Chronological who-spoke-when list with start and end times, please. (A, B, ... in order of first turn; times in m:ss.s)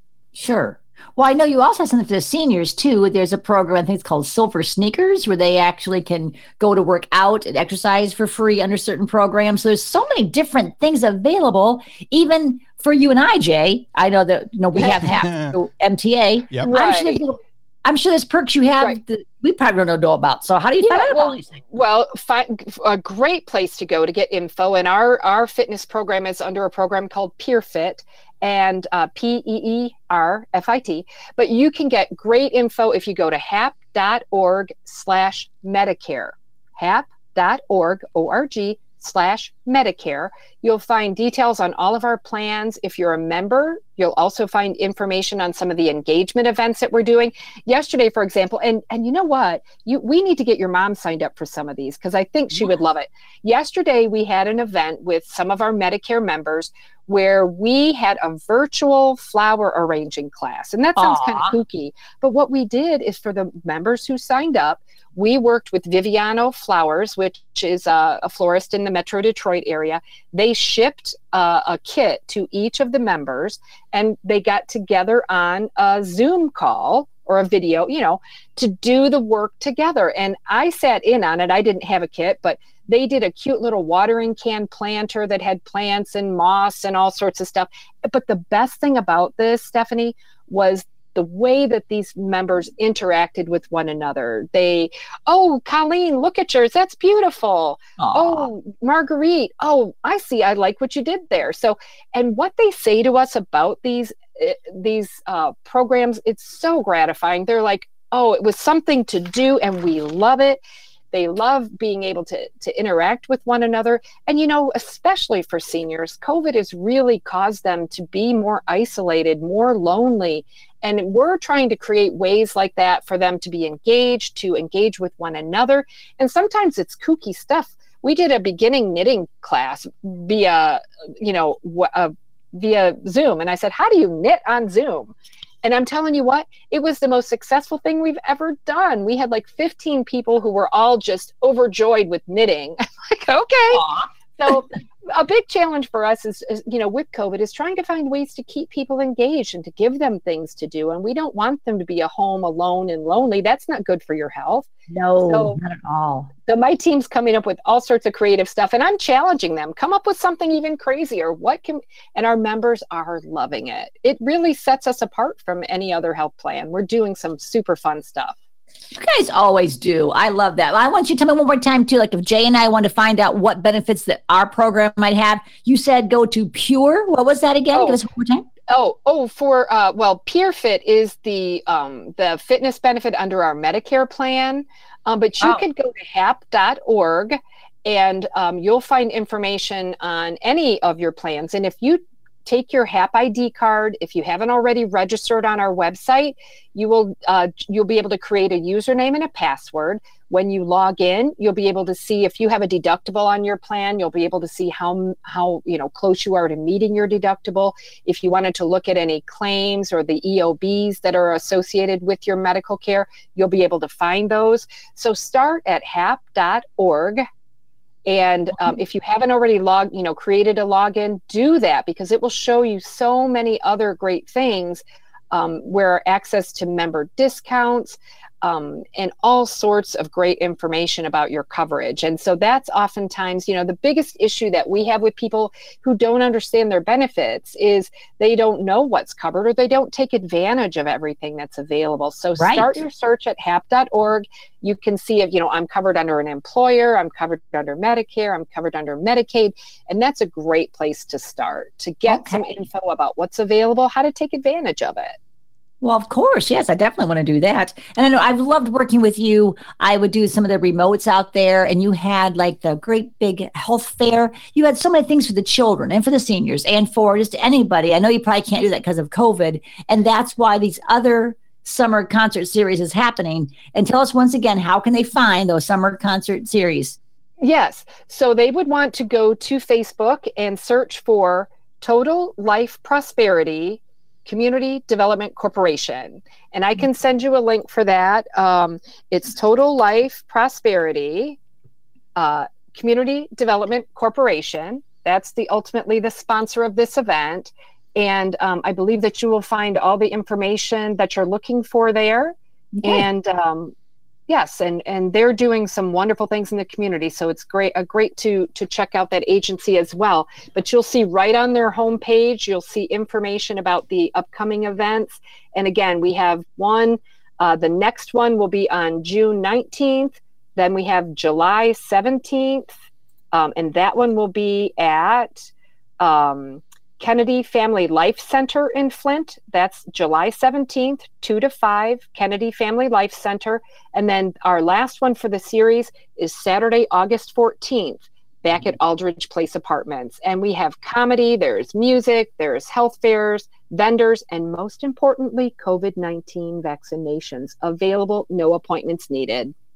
0:00.3-0:21.6 A
0:14.7-0:15.1 B
0:16.6-0:17.2 B
0:20.8-1:50.6 B
1:01.0-1:01.6 A
1:38.0-1:38.4 A
1:51.1-2:23.8 B
2:23.7-2:24.1 A
2:24.4-2:34.7 B
2:34.9-2:36.3 A
2:35.3-2:35.6 B
2:36.4-2:48.4 B
2:48.9-2:58.4 A
2:57.7-2:58.0 B
2:58.7-3:37.2 B
3:38.0-4:15.2 B
4:02.4-4:02.8 A
4:12.1-4:12.6 A
4:15.8-4:37.0 A
4:37.4-4:51.4 B
4:52.2-5:03.7 B
5:02.7-5:03.0 A
5:04.3-5:22.7 B
5:23.3-5:49.5 B